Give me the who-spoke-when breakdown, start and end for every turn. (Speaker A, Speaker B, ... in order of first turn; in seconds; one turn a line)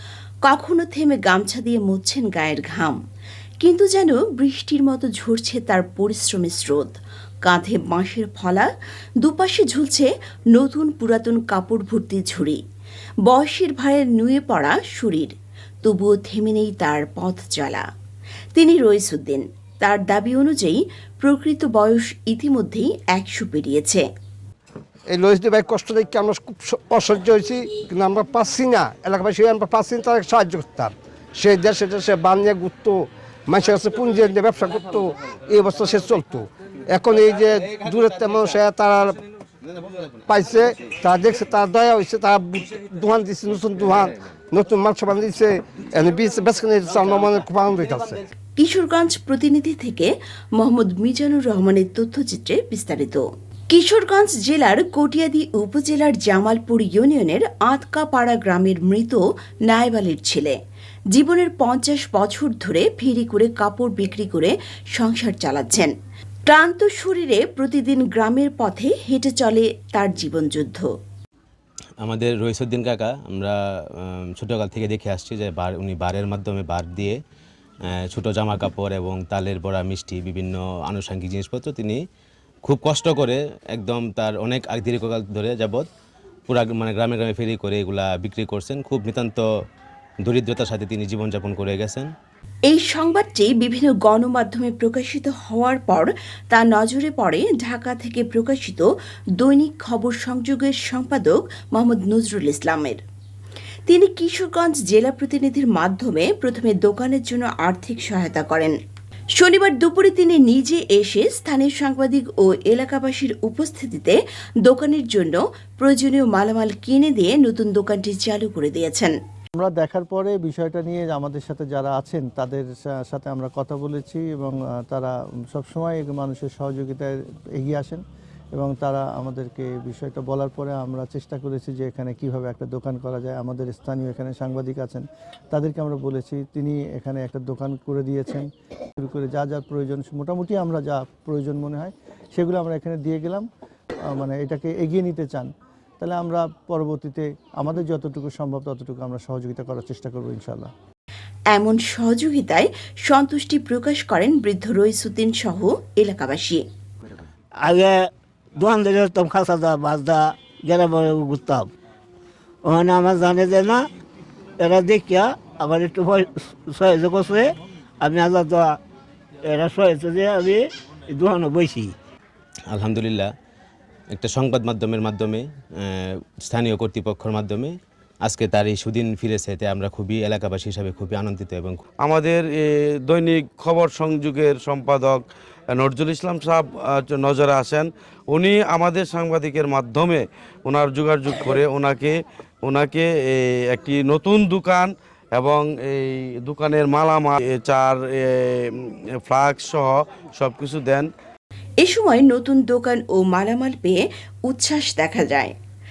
Speaker A: 0.4-3.0
Speaker A: 3.6-8.7
Speaker A: 9.2-12.6
Speaker A: 13.3-17.8
Speaker A: 18.5-24.1
Speaker B: 25.1-39.2
Speaker B: 40.3-48.2
Speaker A: 48.6-60.6
Speaker A: 61.1-65.9
Speaker A: 66.5-70.9
Speaker C: 72.0-77.2
Speaker C: 77.9-82.0
Speaker C: 82.6-85.8
Speaker C: 86.5-89.4
Speaker C: 90.2-92.1
Speaker A: 92.7-98.8
Speaker A: 99.4-103.0
Speaker A: 103.9-108.7
Speaker A: 109.4-119.1
Speaker D: 119.5-128.0
Speaker D: 128.5-138.5
Speaker D: 139.0-143.4
Speaker D: 144.1-150.7
Speaker A: 151.5-156.6
Speaker E: 157.6-157.9
Speaker E: 158.6-161.7
Speaker E: 162.6-163.8
Speaker E: 164.6-168.8
Speaker E: 169.4-171.9
Speaker C: 172.7-173.3
Speaker C: 174.2-177.7
Speaker C: 178.2-181.8
Speaker F: 182.0-185.2
Speaker F: 185.7-198.7
Speaker F: 199.2-201.1
Speaker A: 201.8-205.5